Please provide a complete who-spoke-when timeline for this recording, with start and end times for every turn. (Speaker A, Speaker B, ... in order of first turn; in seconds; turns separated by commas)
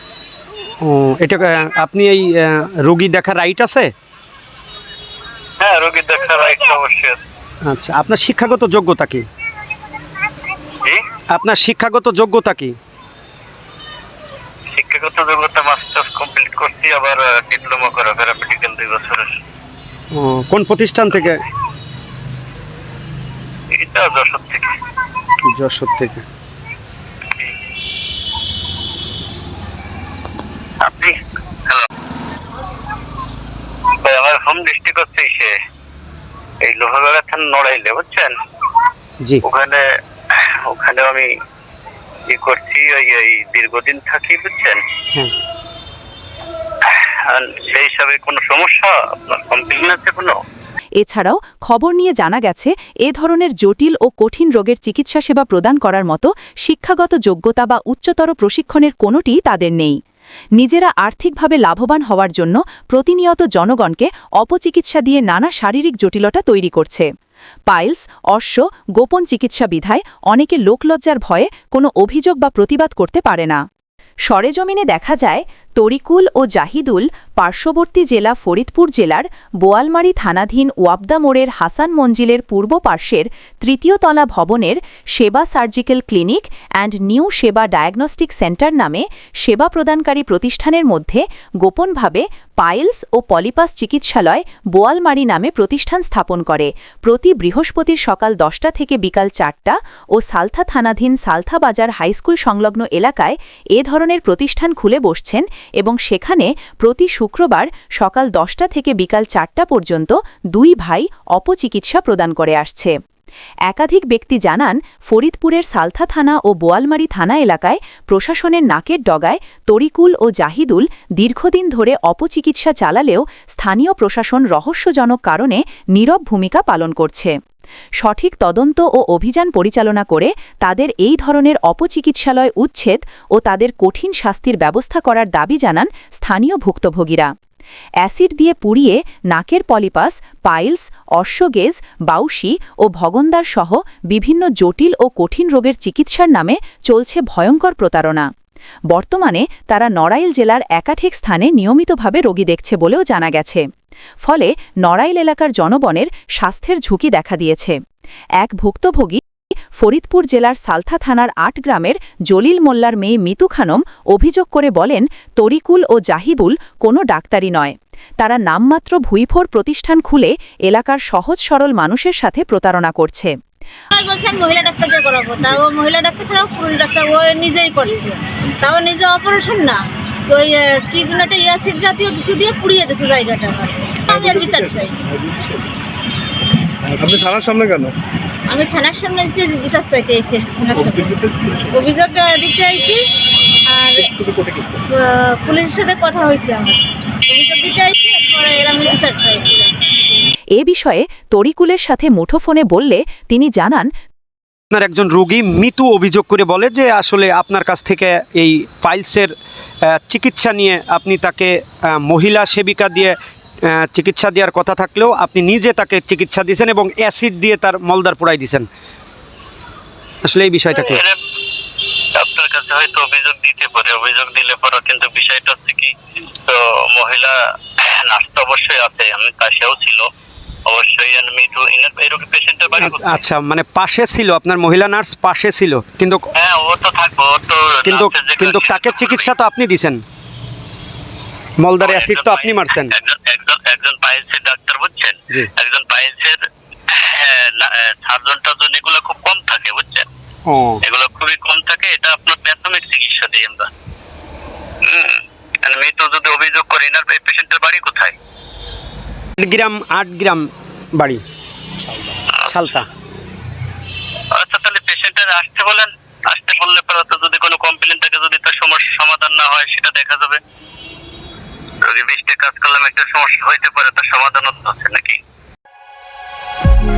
Speaker A: 0.8-3.9, Speaker B: 5.6-7.2, Speaker A: 7.7-9.2, Speaker A: 11.3-12.8, Speaker B: 14.7-19.3, Speaker A: 20.1-21.4, Speaker B: 23.7-24.7, Speaker A: 25.5-26.2, Speaker B: 30.8-31.1, Speaker B: 34.0-35.5, Speaker B: 36.6-38.3, Speaker B: 39.4-41.3, Speaker B: 42.3-44.8, Speaker B: 46.8-50.4, Speaker C: 51.0-60.0, Speaker C: 60.6-67.1, Speaker C: 67.7-73.6, Speaker C: 74.3-112.9, Speaker C: 113.7-127.3, Speaker C: 128.0-137.3, Speaker C: 138.0-148.3, Speaker C: 148.9-153.6, Speaker C: 154.2-157.8, Speaker C: 158.4-159.2, Speaker C: 159.8-173.3, Speaker D: 173.9-185.0, Speaker E: 186.9-187.9, Speaker D: 188.5-193.0, Speaker E: 191.2-191.6, Speaker D: 193.7-194.1, Speaker E: 194.3-194.7, Speaker D: 194.9-199.9, Speaker C: 200.6-203.9, Speaker A: 204.7-209.3, Speaker A: 209.9-218.7, Speaker A: 220.2-221.0, Speaker B: 220.7-221.2, Speaker B: 222.2-225.9, Speaker B: 226.5-230.1, Speaker B: 230.7-233.2, Speaker A: 232.8-236.3, Speaker B: 236.4-239.3, Speaker A: 237.8-240.0, Speaker A: 241.6-242.9, Speaker B: 241.8-250.1, Speaker A: 250.5-250.8, Speaker B: 250.8-253.7, Speaker B: 254.8-258.1, Speaker A: 259.4-260.4, Speaker A: 261.0-261.2, Speaker A: 262.5-262.9, Speaker B: 264.3-270.4, Speaker B: 271.8-275.2